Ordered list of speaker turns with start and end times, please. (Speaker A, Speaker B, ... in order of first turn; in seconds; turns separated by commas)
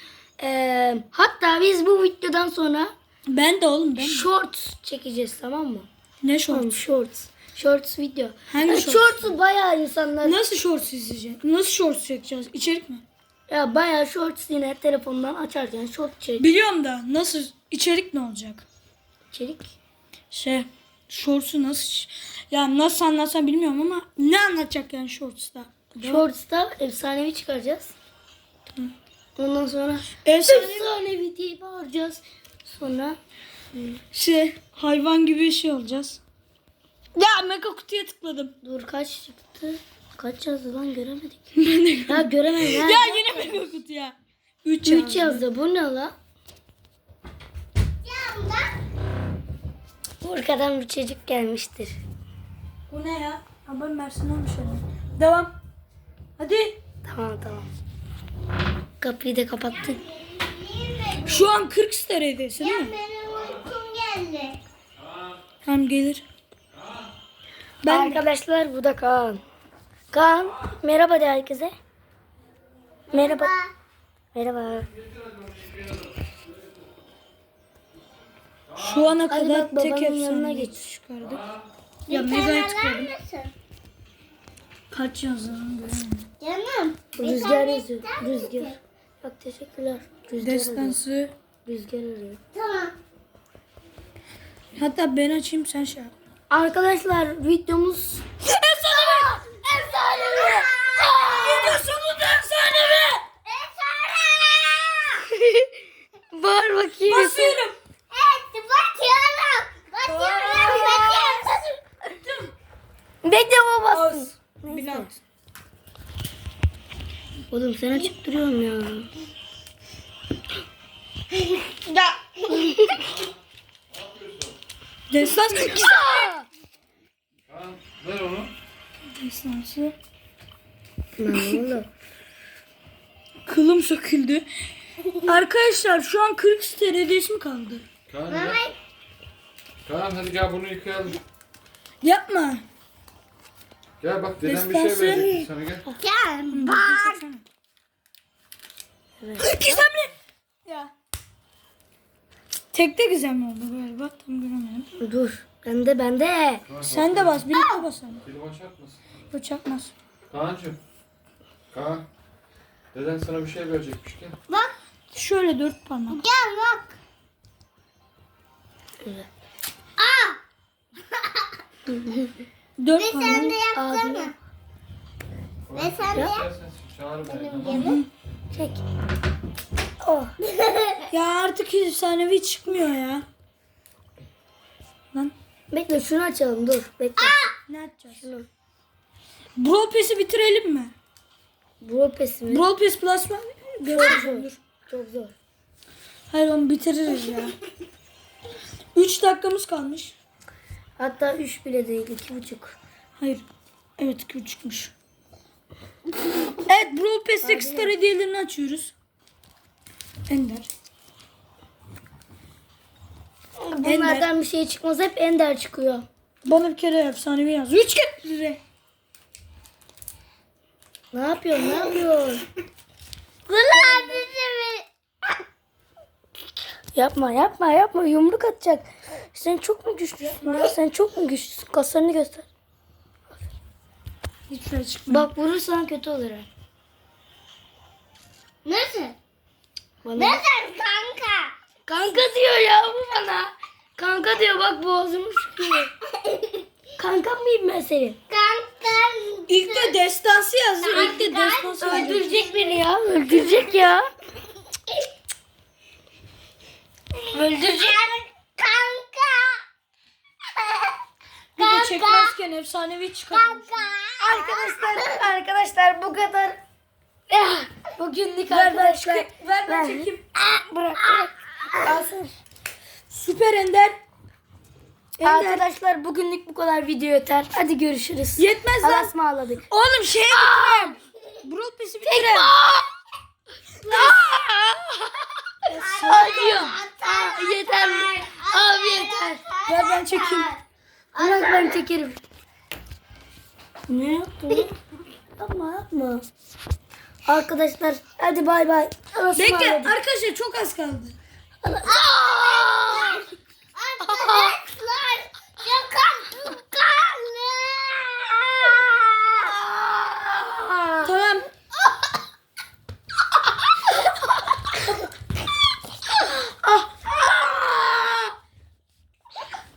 Speaker A: 0.4-2.9, Speaker B: 3.3-4.3, Speaker A: 4.0-5.9, Speaker B: 6.2-6.7, Speaker A: 6.5-10.4, Speaker B: 8.5-9.2, Speaker B: 10.2-13.0, Speaker A: 13.5-16.5, Speaker B: 16.4-18.7, Speaker A: 19.3-19.7, Speaker B: 20.3-26.2, Speaker A: 26.0-27.9, Speaker A: 29.4-33.2, Speaker B: 30.2-30.9, Speaker B: 34.1-36.2, Speaker B: 37.1-38.5, Speaker A: 38.6-43.5, Speaker B: 41.6-45.4, Speaker A: 44.8-46.1, Speaker C: 48.0-48.8, Speaker A: 50.2-52.0, Speaker B: 52.9-55.5, Speaker B: 56.4-56.8, Speaker A: 57.0-57.7, Speaker A: 59.0-60.0, Speaker C: 60.1-61.5, Speaker B: 61.2-63.0, Speaker C: 62.6-64.6, Speaker B: 65.7-66.2, Speaker B: 67.8-68.2, Speaker A: 67.9-69.4, Speaker A: 70.1-71.7, Speaker C: 73.1-73.7, Speaker A: 73.1-73.5, Speaker A: 74.3-74.9, Speaker B: 78.8-81.5, Speaker A: 79.3-80.8, Speaker B: 82.1-83.2, Speaker C: 82.1-83.5, Speaker B: 84.9-86.3, Speaker C: 86.4-88.8, Speaker A: 87.2-91.0, Speaker B: 90.4-91.3, Speaker A: 91.7-92.4, Speaker C: 92.5-93.0, Speaker B: 94.8-96.1, Speaker A: 96.5-98.2, Speaker B: 98.4-99.4, Speaker C: 99.1-101.8, Speaker A: 99.5-101.7, Speaker B: 101.4-103.2, Speaker C: 103.5-105.2, Speaker A: 105.4-105.7, Speaker A: 106.3-107.6, Speaker B: 107.1-107.8, Speaker C: 108.1-111.7, Speaker B: 110.0-111.5, Speaker A: 110.4-111.4, Speaker B: 112.2-112.5, Speaker A: 113.2-115.1, Speaker B: 113.9-115.2, Speaker A: 117.5-119.1, Speaker C: 121.7-122.3, Speaker A: 122.5-123.2, Speaker D: 124.0-124.5, Speaker B: 125.1-126.0, Speaker A: 125.5-126.5, Speaker D: 127.5-128.5, Speaker B: 129.1-129.9, Speaker A: 131.2-131.9, Speaker B: 133.5-134.5, Speaker B: 135.1-137.8, Speaker D: 138.1-138.7, Speaker C: 138.3-138.8, Speaker D: 139.8-141.2, Speaker B: 142.0-142.7, Speaker D: 144.0-145.9, Speaker B: 144.4-145.5, Speaker C: 146.0-147.2, Speaker B: 146.5-147.4, Speaker A: 149.2-149.8, Speaker B: 149.4-150.1, Speaker B: 150.7-150.9, Speaker B: 152.7-154.9, Speaker A: 155.0-156.6, Speaker D: 156.7-157.5, Speaker B: 156.9-158.2, Speaker C: 157.5-157.8, Speaker D: 158.2-159.0, Speaker B: 159.3-159.9, Speaker D: 160.3-160.8, Speaker D: 161.7-162.1, Speaker D: 162.9-164.4, Speaker C: 164.5-164.8, Speaker B: 165.1-166.2, Speaker C: 166.1-167.0, Speaker A: 169.0-169.3, Speaker C: 170.0-170.4, Speaker C: 171.1-171.5, Speaker A: 171.9-172.3, Speaker B: 172.8-173.6, Speaker C: 172.9-174.3, Speaker A: 173.7-174.3, Speaker D: 175.7-178.0, Speaker C: 175.8-176.5, Speaker C: 177.2-178.0, Speaker B: 177.7-178.1, Speaker A: 178.5-178.8, Speaker A: 180.0-180.3, Speaker C: 180.4-181.1, Speaker B: 181.1-183.2, Speaker A: 185.7-187.4, Speaker B: 187.7-188.3, Speaker A: 188.2-188.5, Speaker B: 189.6-190.9, Speaker A: 191.8-192.7, Speaker B: 192.5-194.6, Speaker A: 193.9-195.3, Speaker B: 196.3-197.6, Speaker B: 198.9-200.2, Speaker A: 201.0-202.8, Speaker B: 203.2-203.5, Speaker B: 204.0-204.9, Speaker B: 206.6-208.9, Speaker A: 207.4-207.9, Speaker B: 210.3-210.7, Speaker A: 213.6-216.1, Speaker B: 213.8-214.3, Speaker B: 216.4-218.6, Speaker A: 221.1-222.5, Speaker C: 223.5-224.9, Speaker A: 223.7-224.3, Speaker B: 223.8-224.2, Speaker A: 226.9-232.5, Speaker B: 234.5-235.3, Speaker A: 235.1-236.5, Speaker C: 238.7-239.2, Speaker A: 240.0-240.4, Speaker C: 240.2-241.5, Speaker A: 241.9-245.9, Speaker C: 246.2-246.7, Speaker A: 247.0-248.2, Speaker C: 248.3-249.9, Speaker B: 249.5-252.3, Speaker C: 250.8-252.8, Speaker A: 251.8-254.1, Speaker A: 257.3-258.1, Speaker C: 257.6-259.6, Speaker C: 260.5-261.0, Speaker B: 261.6-263.7, Speaker C: 261.6-262.4, Speaker C: 263.3-265.1, Speaker A: 264.2-266.6, Speaker A: 267.3-271.3, Speaker B: 268.5-270.2, Speaker A: 271.8-272.3, Speaker B: 273.1-274.0, Speaker B: 275.2-275.6, Speaker A: 275.2-279.6, Speaker B: 278.4-279.1, Speaker B: 279.7-282.5, Speaker A: 280.3-281.0, Speaker A: 282.0-282.9, Speaker A: 283.9-285.3, Speaker B: 285.7-286.7, Speaker C: 285.7-290.6, Speaker A: 286.0-289.4, Speaker B: 289.6-290.5, Speaker C: 291.2-291.8, Speaker A: 291.2-292.2, Speaker A: 293.9-294.7, Speaker A: 295.4-296.2, Speaker A: 297.3-300.0, Speaker B: 299.4-301.2, Speaker A: 301.6-303.3, Speaker C: 301.9-309.6, Speaker A: 304.0-304.6, Speaker A: 309.6-311.1, Speaker B: 311.0-311.5, Speaker A: 316.4-318.3